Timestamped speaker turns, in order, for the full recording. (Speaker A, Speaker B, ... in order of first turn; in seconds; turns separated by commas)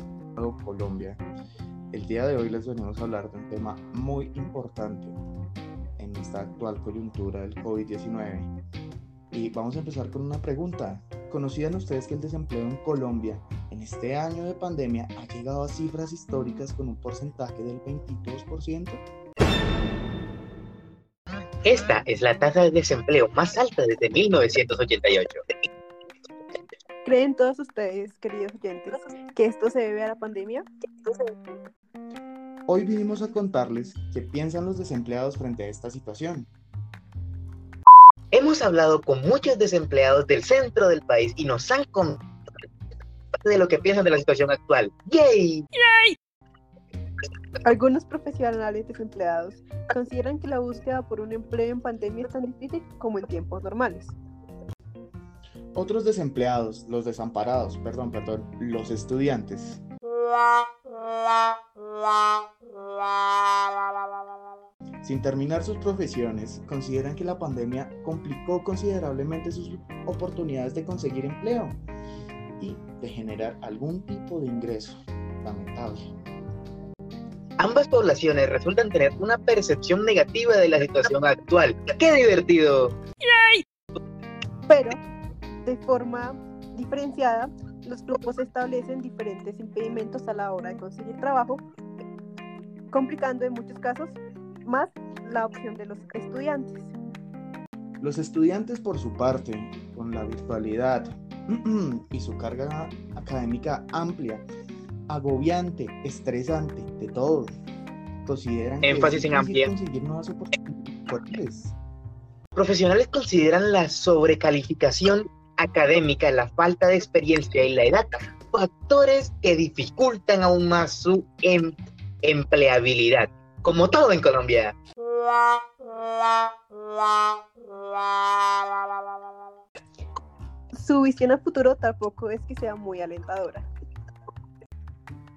Speaker A: 0.3-1.2, Speaker A: 1.9-5.2, Speaker A: 6.0-8.5, Speaker A: 9.3-19.0, Speaker B: 21.6-25.4, Speaker C: 27.0-31.3, Speaker A: 32.7-36.5, Speaker B: 38.3-42.2, Speaker B: 43.4-45.7, Speaker C: 47.6-54.1, Speaker A: 55.7-59.8, Speaker A: 65.0-71.8, Speaker A: 72.6-76.1, Speaker B: 77.6-83.0, Speaker C: 84.7-85.0, Speaker C: 85.6-91.6, Speaker C: 92.9-96.9, Speaker A: 98.0-104.4, Speaker A: 105.1-107.5, Speaker A: 108.2-111.7, Speaker B: 108.8-109.7, Speaker B: 112.5-124.8, Speaker C: 130.7-133.7